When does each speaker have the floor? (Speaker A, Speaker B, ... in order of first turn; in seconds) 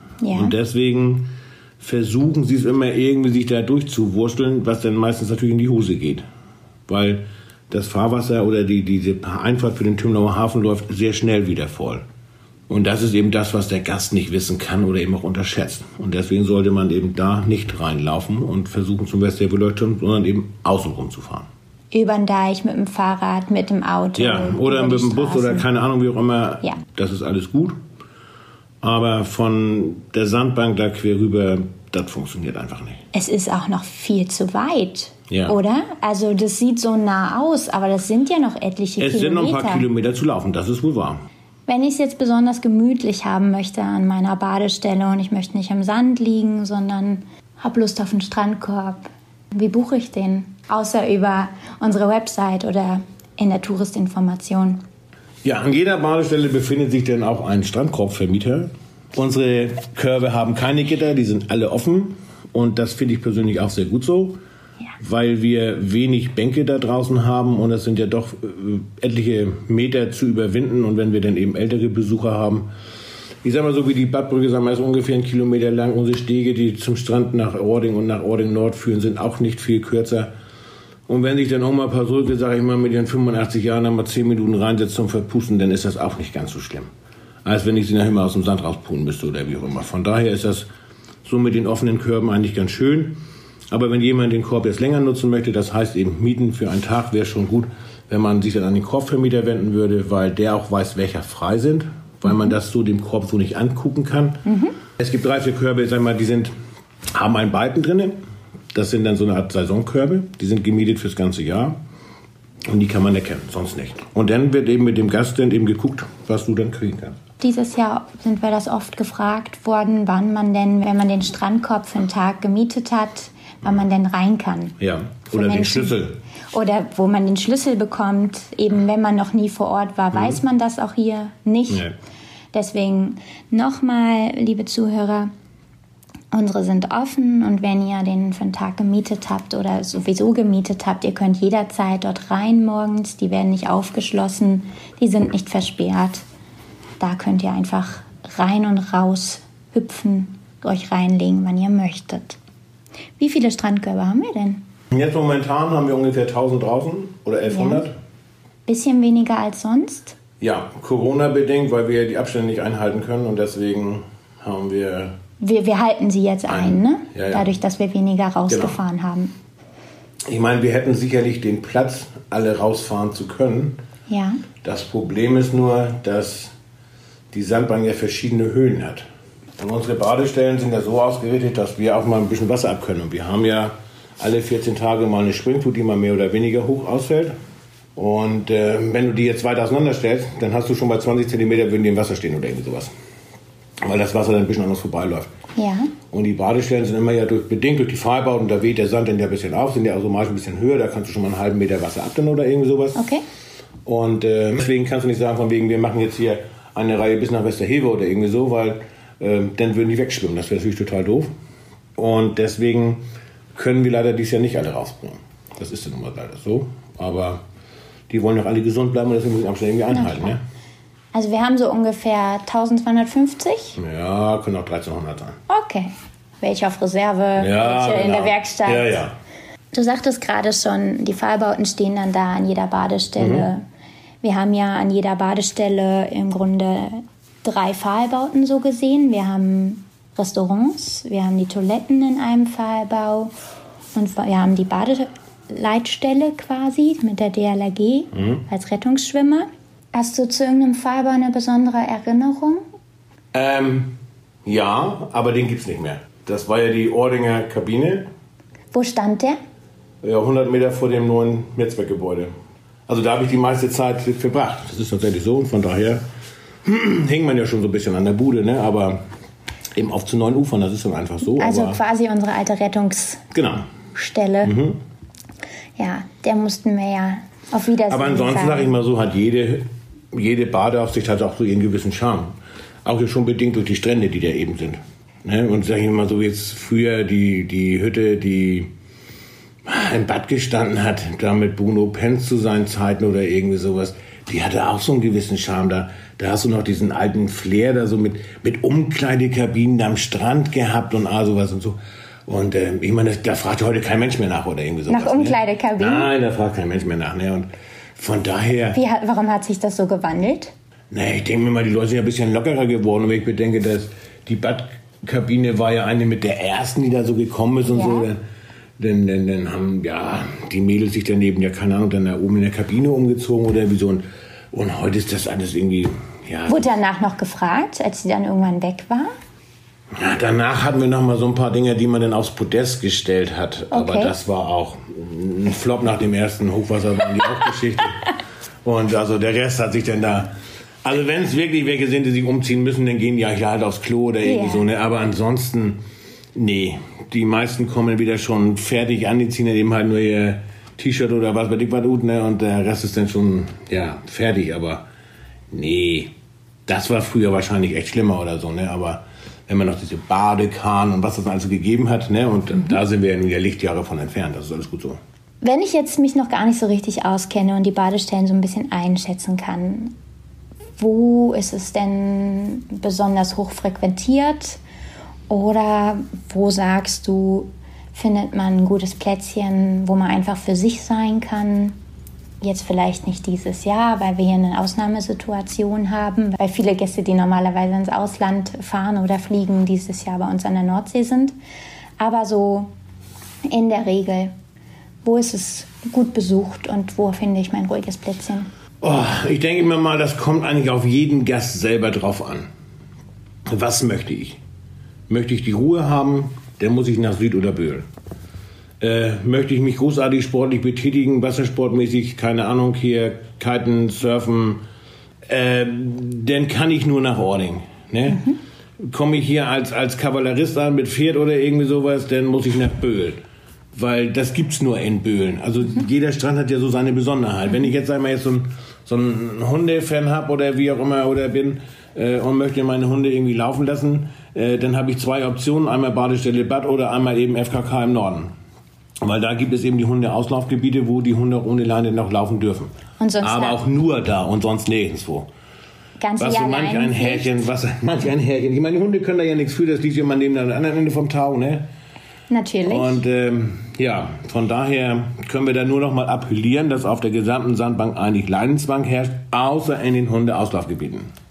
Speaker A: 0.2-0.5, 21.9-25.7, 33.1-39.9, 41.7-54.8, 104.5-104.8, 117.4-124.8, 125.3-126.0, 126.5-131.9, 132.5-135.3, 136.3-146.2, 147.0-152.4, 153.2-154.7, 157.5-157.9, 158.7-160.2, 165.4-169.3, 174.1-174.4, 195.6-195.9, 203.0-203.2, 219.9-220.3, 221.1-223.8, 225.5-229.0, 229.7-233.6, 234.2-243.3, 243.9-252.6, 258.7-259.4, 271.4-273.2, 273.9-274.6, 275.8-278.8, 304.9-306.1, 308.7-310.5, 317.7-318.1, 326.5-329.1, 333.7-334.1, 344.2-344.7, 365.4-369.9, 370.8-374.6, 375.3-381.8, 382.4-391.3, 392.0-392.7, 393.5-394.3, 395.0-398.5, 443.0-443.6, 446.0-447.4, 452.3-453.0
Speaker B: 0.3-6.2, 6.9-12.0, 12.7-21.5, 24.2-27.8, 28.8-33.0, 35.3-35.6, 39.0-41.2, 55.4-64.4, 65.0-72.7, 73.4-80.3, 81.1-86.9, 87.5-90.7, 91.2-106.5, 107.1-108.2, 108.7-111.8, 112.7-117.2, 124.8-126.2, 131.7-131.9, 154.9-157.9, 160.4-165.2, 166.5-167.5, 168.5-168.8, 170.3-173.8, 174.6-176.5, 177.3-179.1, 179.6-187.4, 188.0-192.9, 193.8-195.3, 196.1-203.1, 203.8-211.3, 212.0-213.0, 213.6-217.4, 218.1-220.4, 223.8-225.4, 227.4-229.1, 233.2-233.5, 248.1-248.4, 253.3-258.1, 260.0-262.3, 262.9-266.1, 266.6-269.0, 269.8-271.8, 273.3-273.6, 274.4-274.8, 277.9-282.3, 282.9-288.7, 289.6-308.8, 310.9-318.2, 318.8-326.7, 329.9-338.1, 338.6-340.3, 340.8-345.8, 346.4-354.9, 355.5-356.1, 356.7-365.0, 398.8-402.5, 403.5-404.4, 405.1-407.9, 408.8-414.6, 415.2-423.2, 423.7-438.3, 439.0-445.3, 446.2-451.7, 452.7-461.1